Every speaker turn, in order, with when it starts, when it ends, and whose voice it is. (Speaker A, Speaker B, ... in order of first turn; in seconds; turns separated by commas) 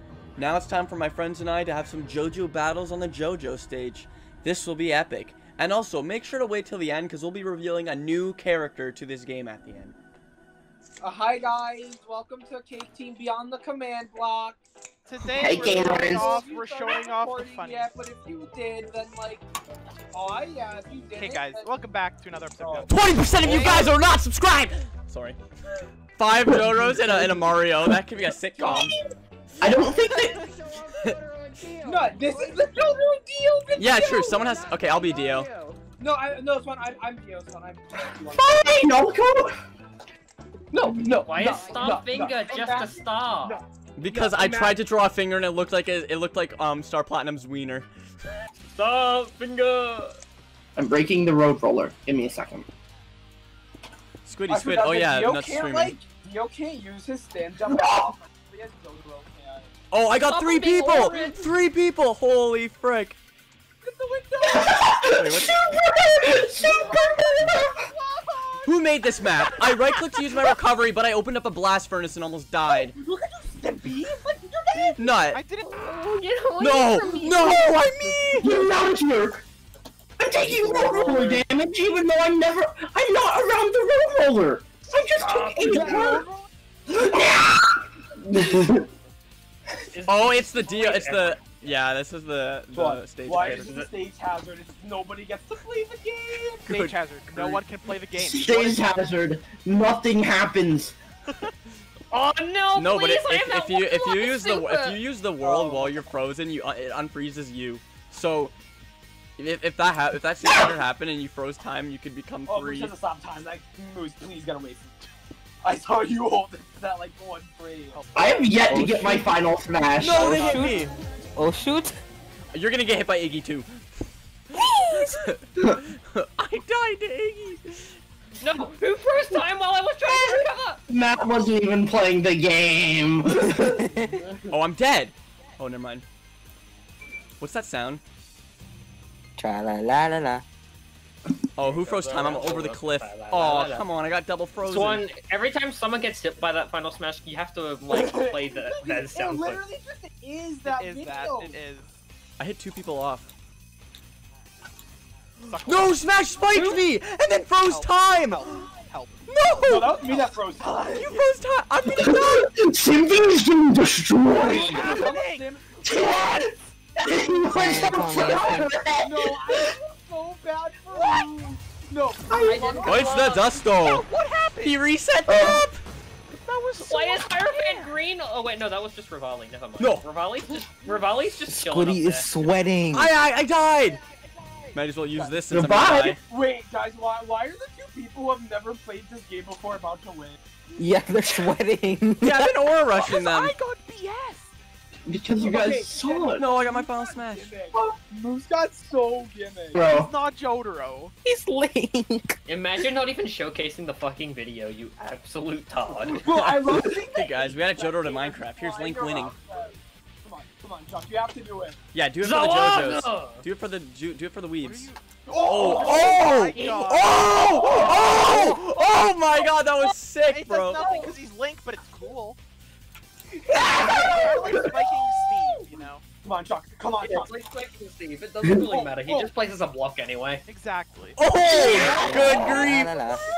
Speaker A: 0.4-10.0, Speaker B: 11.0-14.6, Speaker C: 15.0-17.9, Speaker D: 15.2-16.3, Speaker B: 15.7-19.4, Speaker B: 20.1-21.7, Speaker C: 21.1-24.0, Speaker B: 22.6-22.9, Speaker A: 22.9-25.4, Speaker A: 26.0-29.0, Speaker B: 28.6-29.0, Speaker D: 29.6-30.4, Speaker B: 31.8-34.7, Speaker A: 33.8-35.5, Speaker E: 34.8-35.8, Speaker B: 36.0-38.9, Speaker D: 38.3-39.6, Speaker B: 40.7-44.8, Speaker E: 41.2-43.6, Speaker A: 44.0-47.9, Speaker E: 48.7-50.1, Speaker D: 50.8-52.7, Speaker A: 54.2-56.0, Speaker B: 54.5-59.7, Speaker D: 57.7-58.1, Speaker A: 59.9-63.2, Speaker E: 60.2-61.5, Speaker B: 60.8-61.4, Speaker B: 63.8-70.2, Speaker D: 64.4-67.7, Speaker A: 65.1-65.6, Speaker A: 68.7-73.0, Speaker B: 72.6-75.2, Speaker C: 74.7-75.9, Speaker A: 75.0-75.4, Speaker E: 75.7-77.8, Speaker A: 76.6-78.6, Speaker B: 77.8-78.2, Speaker D: 78.4-79.4, Speaker D: 80.2-86.3, Speaker B: 80.4-81.4, Speaker E: 85.2-86.2, Speaker B: 85.2-86.5, Speaker D: 86.9-88.9, Speaker E: 89.9-91.8, Speaker A: 90.0-93.8, Speaker B: 92.7-96.5, Speaker E: 93.4-93.9, Speaker A: 96.4-97.7, Speaker C: 96.7-98.9, Speaker D: 98.1-101.0, Speaker E: 102.1-105.0, Speaker A: 102.7-108.5, Speaker B: 105.4-106.1, Speaker A: 109.4-113.0, Speaker D: 110.4-110.8, Speaker B: 112.5-115.0, Speaker B: 115.6-118.0, Speaker C: 117.9-118.5, Speaker D: 118.2-120.6, Speaker F: 118.7-119.4, Speaker A: 120.0-120.9, Speaker F: 120.0-122.0, Speaker A: 122.5-128.0, Speaker E: 128.4-130.8, Speaker D: 130.1-133.8, Speaker A: 134.5-136.1, Speaker A: 137.4-138.0, Speaker F: 139.4-140.4, Speaker A: 141.6-145.1, Speaker E: 141.6-143.9, Speaker E: 144.6-149.6, Speaker B: 147.9-151.6, Speaker C: 150.6-151.9, Speaker A: 152.4-153.3, Speaker C: 155.4-156.2, Speaker A: 155.6-158.7, Speaker E: 156.4-156.8, Speaker C: 157.6-159.2, Speaker A: 159.3-160.2, Speaker B: 159.6-161.3, Speaker A: 160.9-162.5, Speaker D: 161.8-165.1, Speaker B: 164.4-166.5, Speaker C: 164.4-165.5, Speaker D: 165.8-169.7, Speaker F: 167.5-168.7, Speaker B: 169.0-173.3, Speaker E: 172.3-173.6, Speaker A: 172.8-175.8, Speaker C: 173.7-174.8, Speaker D: 175.3-175.7, Speaker C: 176.5-177.9, Speaker E: 176.7-182.3, Speaker A: 179.8-180.1, Speaker F: 181.5-183.1, Speaker A: 182.9-184.0, Speaker A: 184.7-186.2, Speaker B: 185.1-185.4, Speaker D: 185.5-186.2, Speaker B: 186.2-190.4, Speaker F: 190.8-192.6, Speaker A: 192.2-193.6, Speaker C: 193.0-194.5, Speaker D: 195.1-196.5, Speaker B: 195.4-199.9, Speaker A: 196.4-197.5, Speaker D: 199.7-200.1, Speaker C: 199.8-201.1, Speaker F: 201.2-202.3, Speaker E: 202.5-206.3, Speaker B: 206.0-211.8, Speaker A: 206.3-209.3, Speaker A: 211.9-220.9, Speaker E: 212.2-213.4, Speaker C: 214.6-215.0, Speaker B: 215.3-216.8, Speaker C: 215.7-218.4, Speaker B: 217.6-218.4, Speaker C: 220.2-222.4, Speaker E: 220.8-221.1, Speaker B: 223.7-224.6, Speaker C: 223.8-226.0, Speaker B: 226.2-227.4, Speaker E: 227.0-230.4, Speaker B: 228.5-229.3, Speaker C: 230.5-231.2, Speaker A: 231.2-233.2, Speaker F: 231.3-233.2, Speaker B: 231.5-232.4, Speaker E: 231.6-232.6